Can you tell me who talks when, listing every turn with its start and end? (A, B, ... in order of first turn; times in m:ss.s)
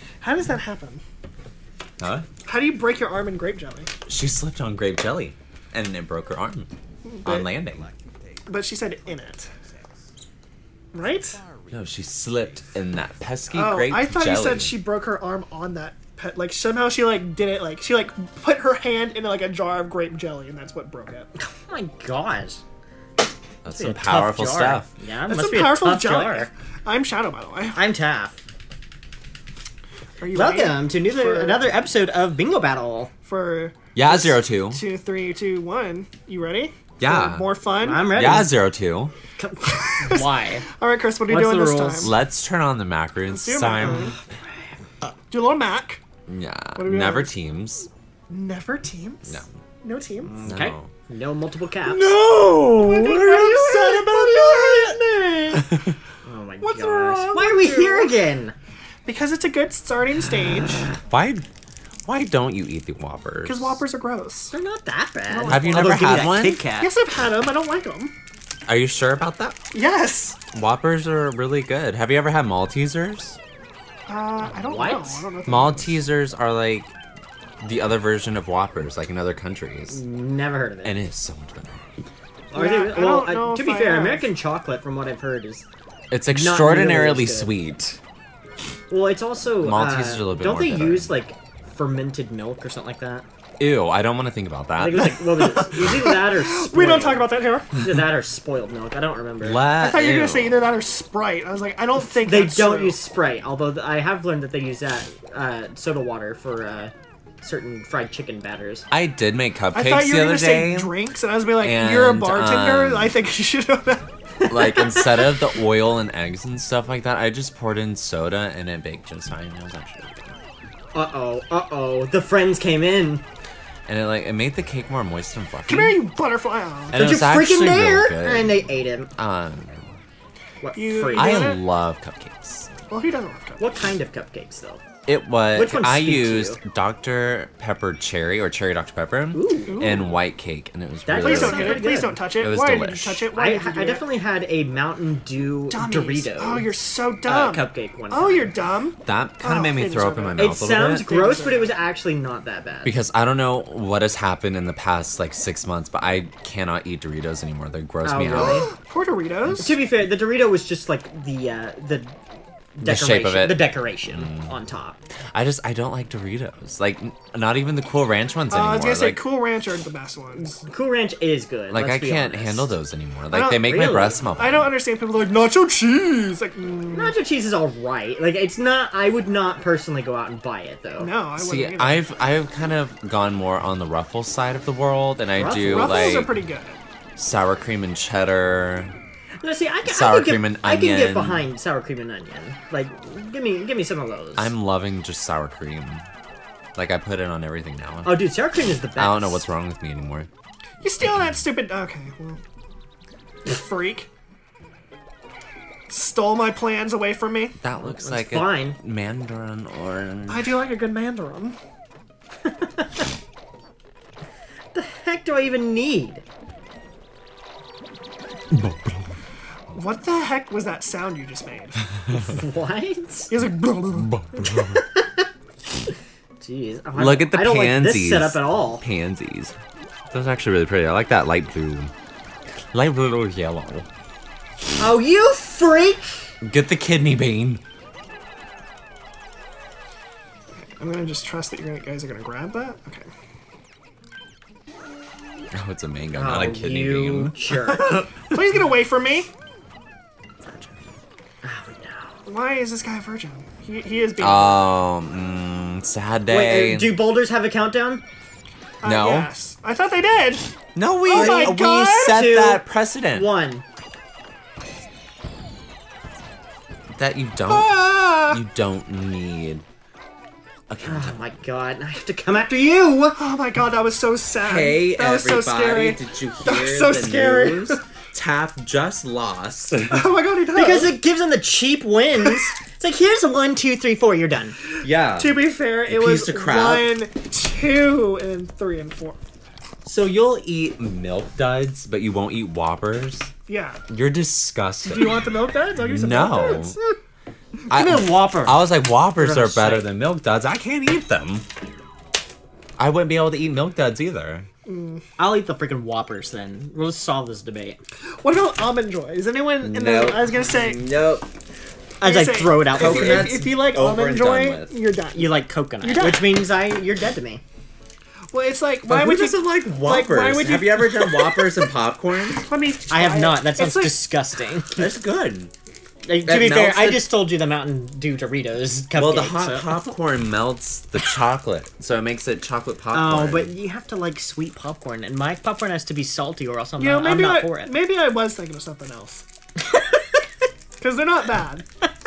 0:00.2-0:01.0 A
0:02.0-0:02.3 B
0:02.4-0:03.9 A
0:04.1-0:06.7 B
0:07.0-0:07.5 A
0:07.2-0:07.9 B
0:08.5-0:09.5 A
0:10.9-0:11.4 A
0:11.7-0:14.8 B
0:13.6-0:21.3 A
0:21.4-0:22.6 C
0:23.6-0:24.9 B
0:23.7-0:26.5 C
0:25.3-0:27.9 A
0:27.7-0:28.4 C
0:30.2-0:31.7 A
0:30.3-0:33.1 C
0:33.3-0:38.4 A
0:34.0-0:34.8 B
0:37.0-0:37.5 B
0:37.8-0:38.6 C
0:38.1-0:39.1 B
0:39.4-0:40.7 C
0:39.7-0:40.3 A
0:40.8-0:42.1 A
0:41.3-0:42.1 C
0:42.0-0:44.1 B
0:43.3-0:44.1 A
0:43.8-0:44.6 C
0:45.3-0:46.0 A
0:46.3-0:47.9 B
0:46.8-0:47.3 A
0:48.3-0:50.4 A
0:49.2-0:49.5 B
0:50.2-0:52.2 C
0:50.5-0:50.9 B
0:51.9-0:54.8 B
0:52.7-0:55.0 A
0:53.0-0:55.6 C
0:55.5-0:55.9 B
0:56.2-0:58.6 C
0:56.6-0:58.2 A
0:59.1-1:00.9 A
1:01.0-1:01.4 B
1:02.1-1:03.8 B
1:03.4-1:04.5 A
1:04.5-1:06.9 C
1:05.3-1:06.3 A
1:05.5-1:06.6 B
1:06.8-1:08.1 A
1:08.7-1:09.6 B
1:09.7-1:10.4 A
1:10.5-1:13.4 B
1:14.1-1:16.0 A
1:14.6-1:15.3 C
1:15.5-1:16.9 B
1:17.6-1:20.0 B
1:19.9-1:21.0 C
1:20.8-1:21.9 B
1:22.5-1:25.7 C
1:22.5-1:24.3 A
1:26.1-1:28.0 B
1:26.3-1:27.5 C
1:28.9-1:33.3 C
1:29.6-1:31.2 B
1:33.6-1:35.2 B
1:34.8-1:39.6 C
1:35.2-1:37.8 A
1:39.4-1:40.6 B
1:39.7-1:43.0 A
1:42.0-1:48.9 C
1:48.9-1:50.9 B
1:49.7-1:54.1 A
1:51.6-1:53.2 B
1:54.4-1:55.4 C
1:54.5-2:00.4 B
2:00.9-2:03.2 C
2:03.9-2:06.0 B
2:05.7-2:07.0 A
2:06.9-2:08.7 B
2:06.9-2:09.1 C
2:09.2-2:09.9 B
2:10.6-2:11.6 C
2:10.7-2:11.6 A
2:11.1-2:12.7 B
2:12.9-2:13.6 A
2:13.6-2:14.9 C
2:15.1-2:21.9 B
2:15.5-2:16.6 C
2:19.3-2:19.8 C
2:19.7-2:20.2 A
2:21.1-2:22.2 C
2:21.2-2:24.1 A
2:22.4-2:23.3 B
2:23.3-2:26.7 C
2:25.7-2:31.8 A
2:27.2-2:28.6 C
2:29.0-2:31.1 B
2:30.4-2:33.0 C
2:32.8-2:38.7 B
2:38.0-2:38.7 C
2:38.4-2:39.8 A
2:39.6-2:42.2 C
2:42.8-2:45.0 C
2:42.8-2:44.5 B
2:45.3-2:49.2 B
2:48.5-2:50.6 A
2:50.4-2:52.7 C
2:51.7-2:54.7 B
2:53.3-2:57.2 A
2:53.7-2:54.2 C
2:56.9-3:01.1 C
3:01.0-3:02.1 A
3:01.4-3:06.3 B
3:05.4-3:06.2 C
3:05.5-3:06.8 A
3:07.2-3:08.9 B
3:09.4-3:14.5 C
3:09.8-3:11.5 B
3:14.4-3:16.0 B
3:16.8-3:18.3 B
3:18.0-3:19.4 C
3:19.0-3:20.3 B
3:20.8-3:22.4 A
3:23.4-3:24.1 A
3:25.9-3:27.6 A
3:27.6-3:30.5 B
3:27.8-3:28.8 C
3:30.3-3:31.6 A
3:32.5-3:33.0 C
3:34.7-3:36.2 C
3:38.5-3:39.1 B
3:39.7-3:41.8 A
3:42.1-3:43.3 C
3:43.3-3:44.2 A
3:44.0-3:44.8 B
3:44.4-3:45.3 C
3:46.4-3:48.8 C
3:47.0-3:49.6 B
3:50.1-3:51.9 B
3:52.7-3:53.9 B
3:54.8-3:56.3 C
3:56.4-3:57.6 B
4:00.8-4:03.1 A
4:05.5-4:07.4 B
4:06.2-4:08.0 C
4:07.7-4:09.3 A
4:11.4-4:12.2 C
4:12.2-4:14.7 A
4:14.2-4:17.0 B
4:16.3-4:18.0 C
4:18.8-4:20.6 A
4:18.8-4:19.3 B
4:20.8-4:23.3 B
4:21.0-4:23.6 C
4:21.1-4:21.6 A
4:27.0-4:29.6 B
4:27.5-4:28.4 A
4:30.7-4:31.2 B
4:30.8-4:33.2 C
4:33.2-4:37.8 A
4:34.4-4:40.0 B
4:39.9-4:41.0 A
4:40.5-4:44.6 C
4:44.8-4:47.0 B
4:45.1-4:49.2 A
4:49.8-4:53.3 B
4:53.5-4:53.8 A
4:53.9-4:56.8 B
4:54.8-4:56.8 A
4:57.7-4:59.9 C
4:57.7-5:01.5 B
5:02.8-5:04.5 B
5:04.7-5:05.0 A
5:05.2-5:07.8 C
5:08.2-5:10.9 A
5:09.6-5:11.3 B
5:12.0-5:13.3 C
5:12.0-5:16.5 A
5:12.7-5:14.8 B
5:15.2-5:17.4 C
5:18.3-5:21.5 A
5:18.8-5:22.5 B
5:22.4-5:24.1 A
5:22.9-5:25.0 C
5:24.8-5:25.5 B
5:26.0-5:29.8 C
5:26.2-5:27.1 B
5:28.9-5:33.6 B
5:32.9-5:37.8 C
5:36.8-5:39.2 A
5:40.8-5:41.6 A